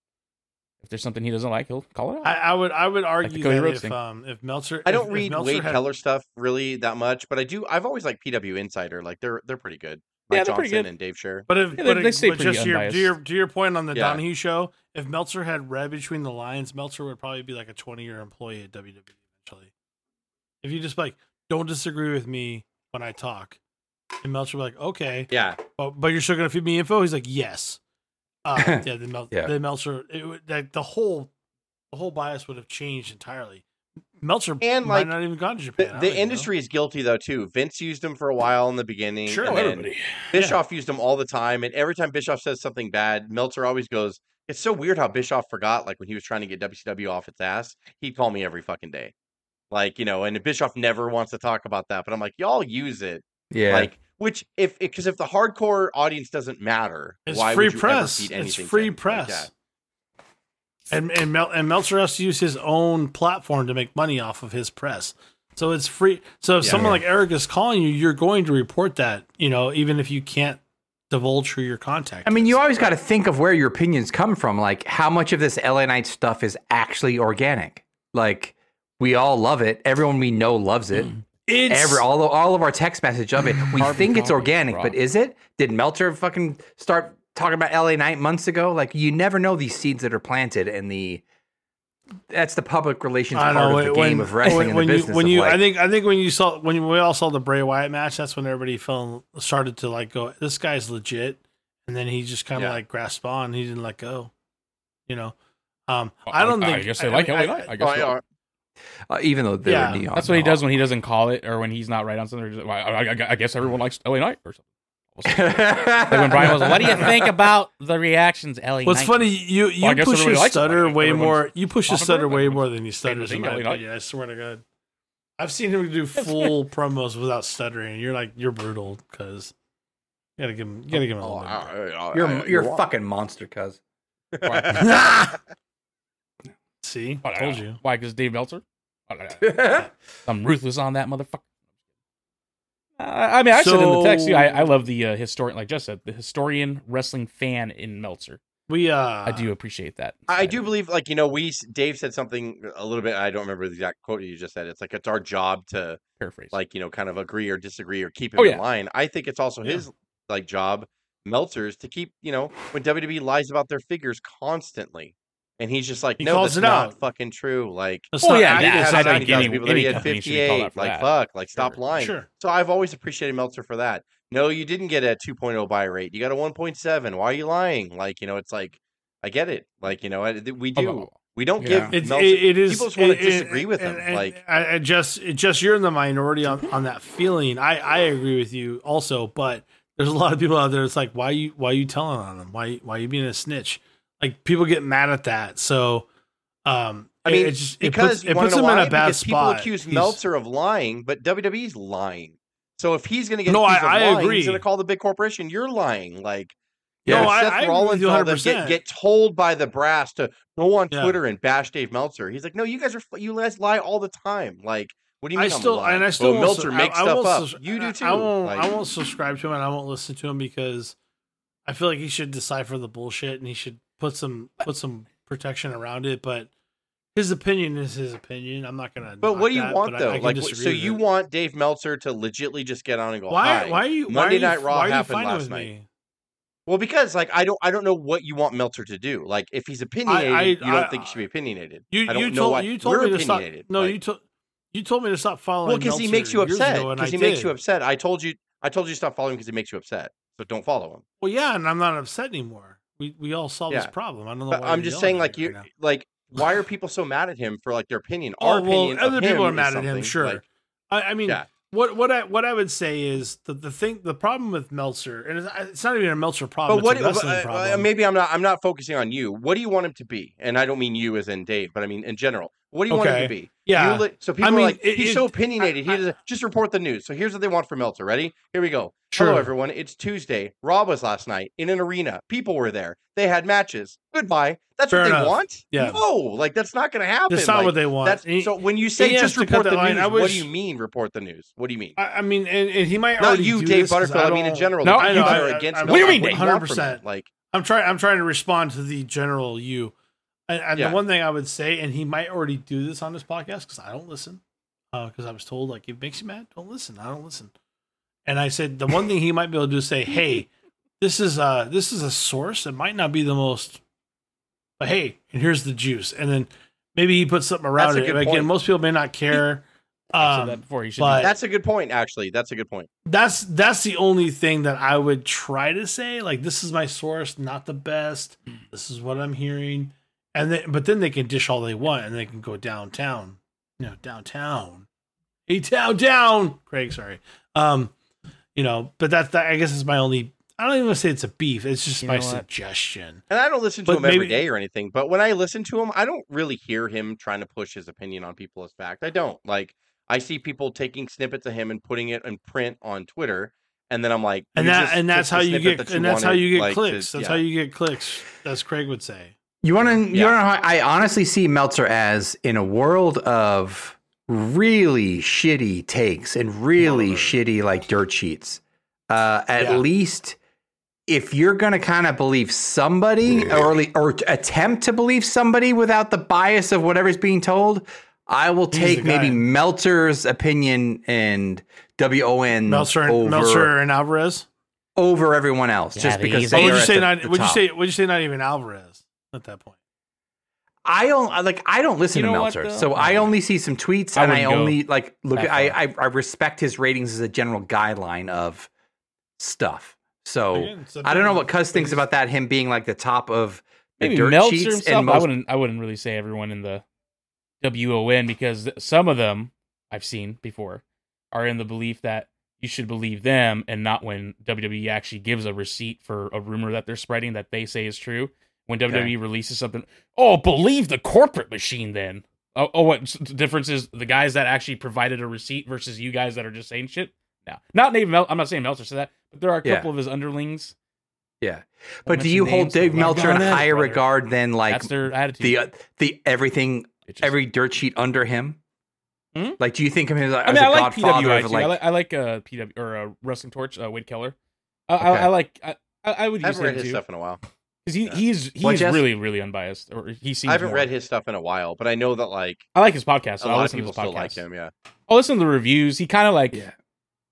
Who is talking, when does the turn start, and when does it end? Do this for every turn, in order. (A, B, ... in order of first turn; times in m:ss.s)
0:00.8-0:02.4 A
0:02.2-0:05.8 B
0:03.2-0:04.0 A
0:04.8-0:11.5 C
0:10.3-0:10.9 A
0:11.5-0:19.7 B
0:11.8-0:13.2 A
0:13.9-0:14.2 C
0:20.6-0:23.6 B
0:24.2-0:27.8 B
0:25.3-0:25.6 C
0:28.4-0:31.3 B
0:28.6-0:29.5 D
0:31.9-0:33.6 B
0:34.2-0:36.5 B
0:34.6-0:35.1 C
0:35.8-0:49.1 C
0:39.3-0:39.7 B
0:39.4-0:40.1 A
0:40.3-0:40.6 B
0:49.7-0:59.5 C
0:53.5-0:53.9 D
0:57.3-0:59.5 B
1:00.9-1:12.8 B
1:06.6-1:06.9 C
1:06.7-1:07.0 D
1:12.3-1:31.2 D
1:21.5-1:22.1 B
1:23.7-1:25.0 A
1:32.3-1:35.6 D
1:33.3-1:44.3 B
1:42.6-1:42.8 C
1:45.1-1:45.4 B
1:45.9-1:47.7 B
1:46.3-1:48.2 A
1:47.8-1:48.2 C
1:49.1-1:50.6 D
1:49.6-1:50.0 B
1:50.2-1:54.6 A
1:55.2-2:03.8 A
1:55.3-1:57.3 D
1:58.8-2:04.6 B
2:05.4-2:09.5 B
2:06.2-2:06.6 A
2:10.4-2:11.7 B
2:11.2-2:12.8 C
2:12.1-2:13.8 D
2:14.3-2:14.9 C
2:14.4-2:14.8 A
2:14.7-2:15.4 B
2:16.8-2:17.8 B
2:17.2-2:21.4 A
2:19.4-2:19.9 D
2:23.0-2:28.4 A
2:23.5-2:24.7 B
2:28.7-2:29.5 B
2:29.2-2:30.6 A
2:30.3-2:36.0 C
2:36.2-2:36.5 A
2:36.5-3:04.4 C
2:38.4-2:38.6 A
2:46.2-2:47.0 B
2:48.1-2:50.1 B
2:48.2-2:51.8 A
2:52.0-2:52.3 B
3:00.8-3:01.9 A
3:01.6-3:01.9 D
3:01.9-3:16.1 B
3:16.6-3:20.2 B
3:17.2-3:26.5 C
3:23.5-3:24.6 B
3:27.0-3:28.8 B
3:27.0-3:38.7 C
3:27.1-3:27.3 D
3:30.9-3:31.2 B
3:35.4-3:41.0 B
3:41.7-3:46.5 B
3:47.2-3:51.0 B
3:49.2-3:55.7 C
3:53.3-3:55.9 B
3:56.7-4:04.0 C
4:00.1-4:01.2 B
4:01.9-4:04.2 B
4:04.7-4:07.5 B
4:05.6-4:11.0 C
4:11.2-4:15.7 B
4:14.5-4:20.4 C
4:18.4-4:27.9 B
4:26.7-4:52.0 C
4:32.9-4:35.7 B
4:39.1-4:39.5 B
4:44.9-4:46.0 B
4:47.3-4:50.5 B
4:52.0-4:59.9 B
4:53.2-4:57.3 C
4:54.8-4:56.5 A
5:00.5-5:04.4 B
5:00.8-5:01.0 C
5:04.9-5:07.5 B
5:08.3-5:10.5 B
5:11.0-5:13.8 B
5:14.8-5:21.3 B
5:17.8-5:18.5 C
5:20.2-5:21.3 A
5:21.2-5:22.9 C
5:23.1-5:34.9 B
5:35.5-5:37.9 B
5:38.6-5:43.2 B
5:42.0-5:42.5 A
5:43.3-5:57.4 C
5:43.9-5:44.5 B
5:54.6-5:59.4 B
5:59.6-6:10.4 D
6:00.1-6:00.4 C
6:06.8-6:07.4 B
6:09.6-6:09.8 B
6:11.1-6:23.7 D
6:18.7-6:19.4 B
6:22.7-6:24.5 B
6:25.0-6:27.6 D
6:25.9-6:26.8 A
6:26.5-6:29.8 B
6:30.9-6:38.7 D
6:32.1-6:33.4 A
6:34.1-6:34.8 A
6:35.3-6:35.8 A
6:39.4-6:45.3 D
6:40.5-6:42.0 B
6:44.0-6:46.8 A
6:47.6-7:10.8 A
6:58.9-6:59.1 D
7:09.6-7:09.9 D
7:11.4-7:18.6 D
7:12.1-7:14.0 A
7:13.0-7:13.7 B
7:14.7-7:15.6 A
7:17.1-7:17.3 A
7:19.3-7:19.6 A
7:19.6-7:21.8 D
7:20.4-7:24.4 A
7:24.9-7:27.0 A
7:25.0-7:25.3 D
7:26.4-7:27.4 C
7:27.8-7:30.9 A
7:28.6-7:29.0 D
7:30.5-7:32.6 C
7:32.8-7:34.4 A
7:33.4-7:34.7 C
7:35.1-7:36.6 A